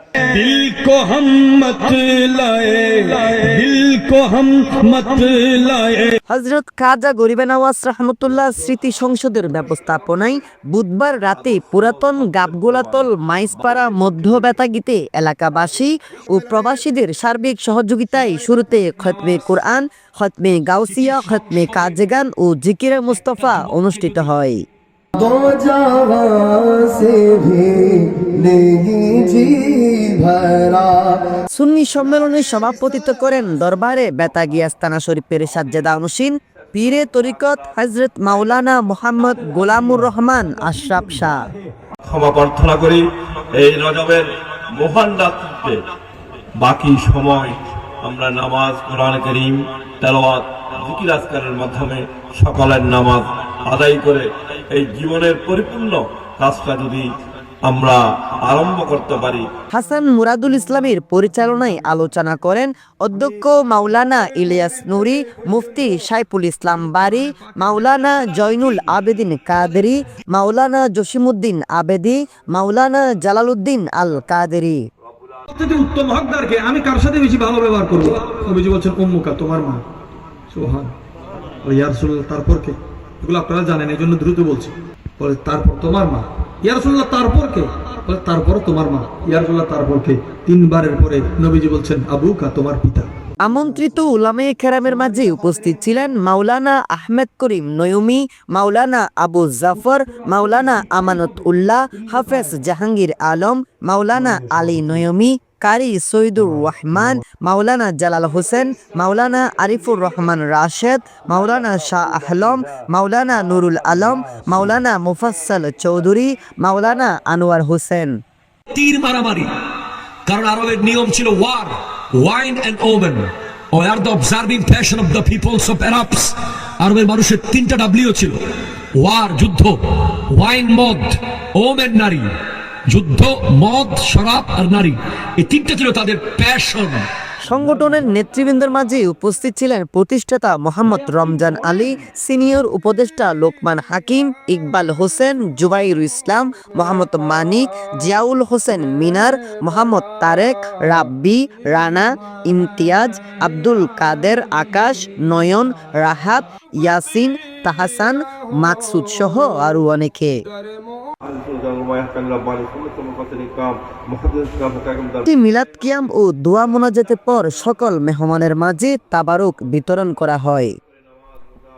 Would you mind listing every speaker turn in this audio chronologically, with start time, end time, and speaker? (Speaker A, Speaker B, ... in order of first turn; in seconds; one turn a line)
Speaker A: 0.2-6.1
Speaker B: 6.3-24.6
Speaker C: 25.2-31.2
Speaker B: 31.5-41.5
Speaker D: 42.0-45.8
Speaker D: 46.6-57.1
Speaker D: 57.6-59.5
Speaker B: 59.7-74.8
Speaker E: 75.5-79.9
Speaker E: 80.5-81.0
Speaker E: 81.6-93.1
Speaker B: 93.4-118.2
Speaker A: 118.7-119.5
Speaker A: 120.3-128.4
Speaker A: 128.9-132.3
Speaker A: 132.9-137.1
Speaker B: 137.4-160.4
Speaker D: 161.2-165.3
Speaker B: 165.3-170.7